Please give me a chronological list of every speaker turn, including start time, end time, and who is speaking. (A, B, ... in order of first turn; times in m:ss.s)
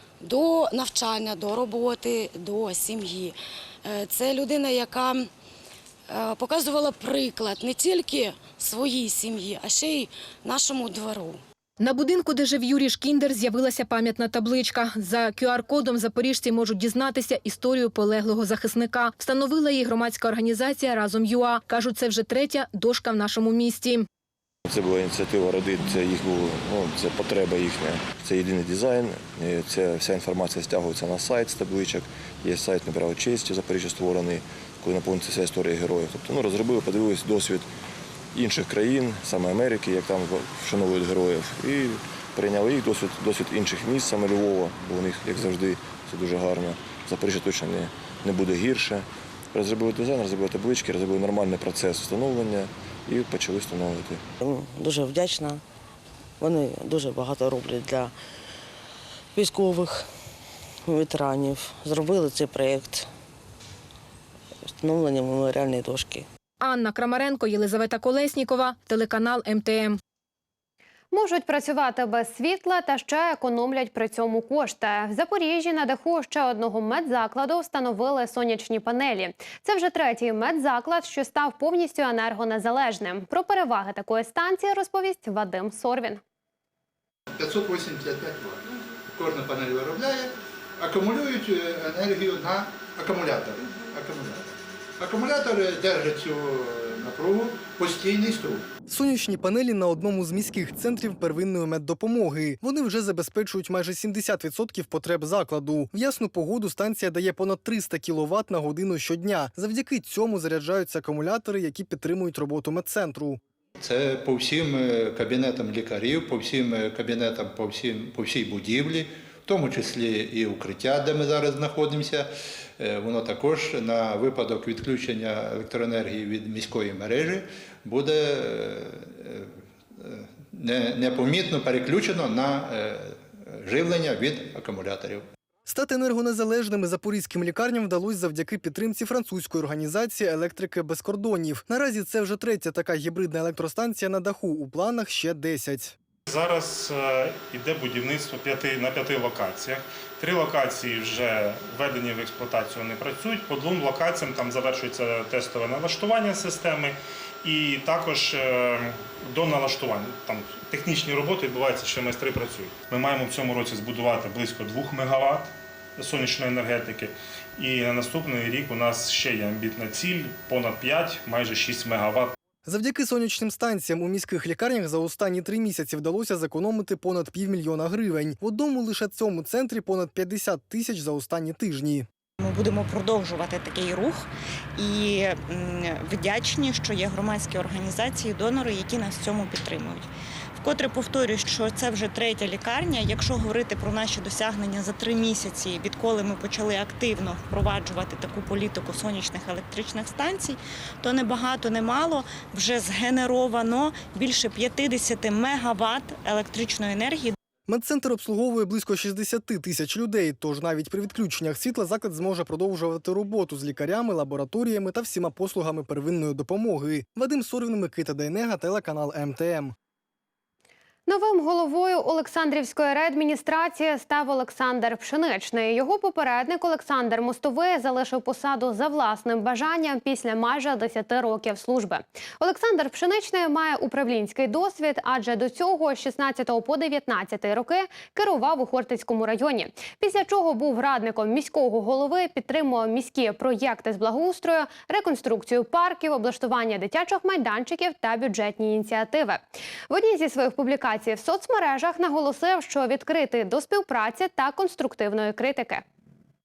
0:00.2-0:05.3 A
0:06.1-0:11.4 A
0:11.8-0:24.1 B
0:24.7-0:37.7 C
0:38.3-0:54.2 C
0:54.4-0:55.6 D
0:56.4-0:58.1 D
0:59.4-1:00.1 D
1:00.9-1:03.1 D
1:04.8-1:06.3 D
1:06.6-1:10.0 B
1:11.1-1:26.2 E
1:27.4-1:28.6 F
1:29.1-1:38.6 F
1:38.9-1:53.4 G
1:53.8-2:09.5 F
2:10.0-2:15.2 F
2:15.7-2:26.0 G
2:26.3-2:52.4 H
2:52.7-3:02.1 G
3:02.4-3:27.3 I
3:27.7-3:39.7 G
3:41.1-4:15.8 E